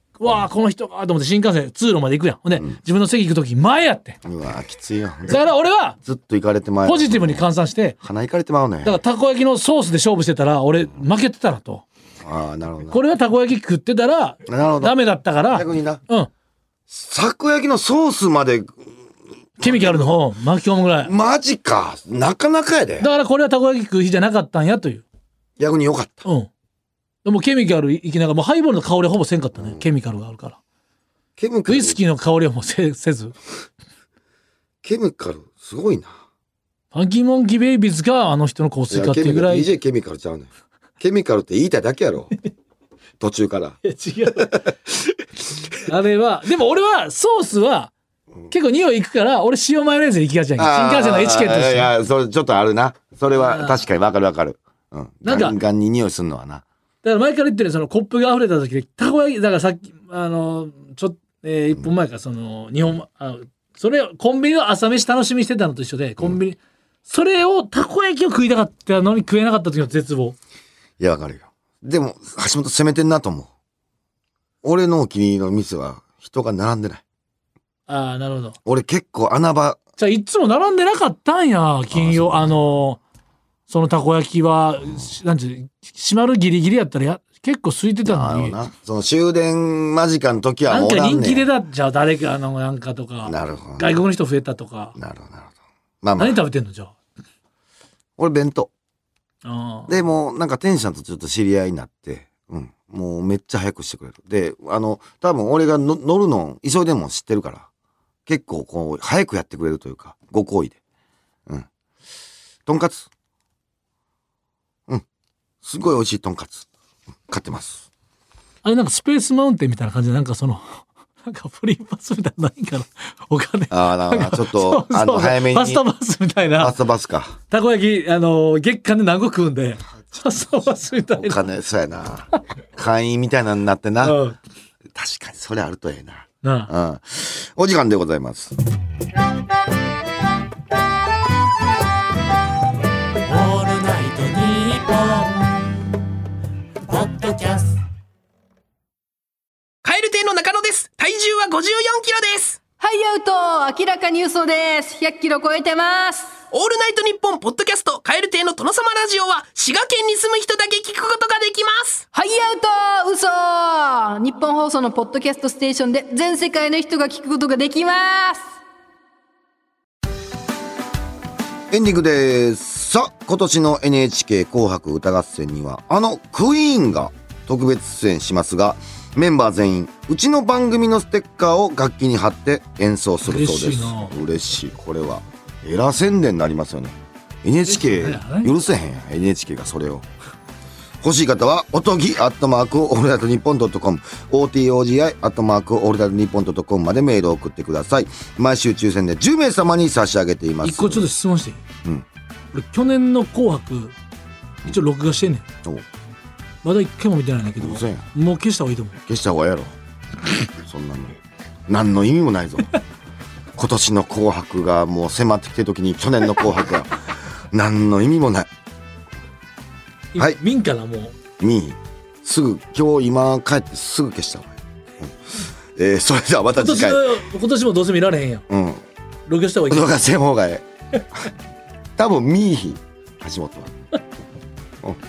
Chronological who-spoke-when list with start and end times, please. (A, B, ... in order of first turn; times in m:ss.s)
0:00.2-0:04.2 A
0:04.2-0:05.4 B
0:05.3-0:06.0 A
0:06.0-0:07.4 B
0:06.8-0:08.0 A
0:08.0-0:09.0 B
0:08.8-0:11.8 A
0:12.2-0:13.0 B
0:12.9-0:16.3 A
0:14.4-0:15.0 B
0:15.5-0:16.0 B
0:16.9-0:18.8 B
0:19.6-0:20.1 B
0:19.6-0:21.1 A
0:21.0-0:23.1 B
0:23.0-0:25.0 A
0:25.6-0:26.2 B
0:27.2-0:30.6 A
0:29.6-0:29.9 B
0:31.4-0:32.0 B
0:31.7-0:33.3 A
0:34.8-0:36.2 B
0:36.9-0:39.7 A
0:38.9-0:40.5 B
0:41.0-0:42.3 B
0:43.2-0:43.8 B
0:43.8-0:44.7 A
0:45.8-0:47.9 A
0:48.5-0:51.9 A
0:50.6-0:56.6 B
0:53.4-0:53.8 A
0:55.2-0:55.6 A
0:57.0-1:10.4 A
1:11.0-1:13.5 B
1:14.6-1:17.0 B
1:17.9-1:18.6 A
1:18.6-1:19.8 B
1:20.0-1:23.0 A
1:21.9-1:22.5 B
1:23.7-1:28.6 A
1:28.0-1:31.5 B
1:30.7-1:34.9 A
1:33.2-1:34.0 B
1:35.0-1:36.4 B
1:36.2-1:36.9 A
1:38.2-1:38.7 B
1:39.4-1:39.9 A
1:39.9-1:47.7 B
1:48.3-1:50.8 B
1:52.6-1:53.1 B
1:55.6-1:56.7 B
1:57.3-1:57.8 B
1:58.6-2:06.7 A
2:03.7-2:05.8 B
2:06.6-2:07.4 B
2:07.5-2:11.4 A
2:11.2-2:14.2 B
2:14.0-2:14.4 A
2:14.9-2:18.6 B
2:16.4-2:16.7 A
2:23.3-2:25.7 C
2:26.8-2:27.8 C
2:29.8-2:32.6 C
2:32.8-2:36.4 D
2:36.5-2:42.1 C
2:42.1-2:48.4 D
2:51.7-3:10.0 B
3:03.2-3:04.1 A
3:07.7-3:08.5 A
3:11.0-3:21.1 B
3:20.6-3:21.6 A
3:22.5-3:23.9 A
3:24.6-3:25.4 A
3:26.6-3:29.0 A
3:27.6-3:28.0 B
3:29.1-3:29.7 B
3:30.6-3:32.7 B
3:33.5-3:38.5 B
3:40.1-3:41.1 A
3:41.4-3:45.1 B
3:45.7-3:47.2 B
3:46.6-3:48.4 A
3:48.5-3:48.8 B
3:49.3-3:49.9 A
3:49.7-3:50.6 B
3:52.0-3:53.8 B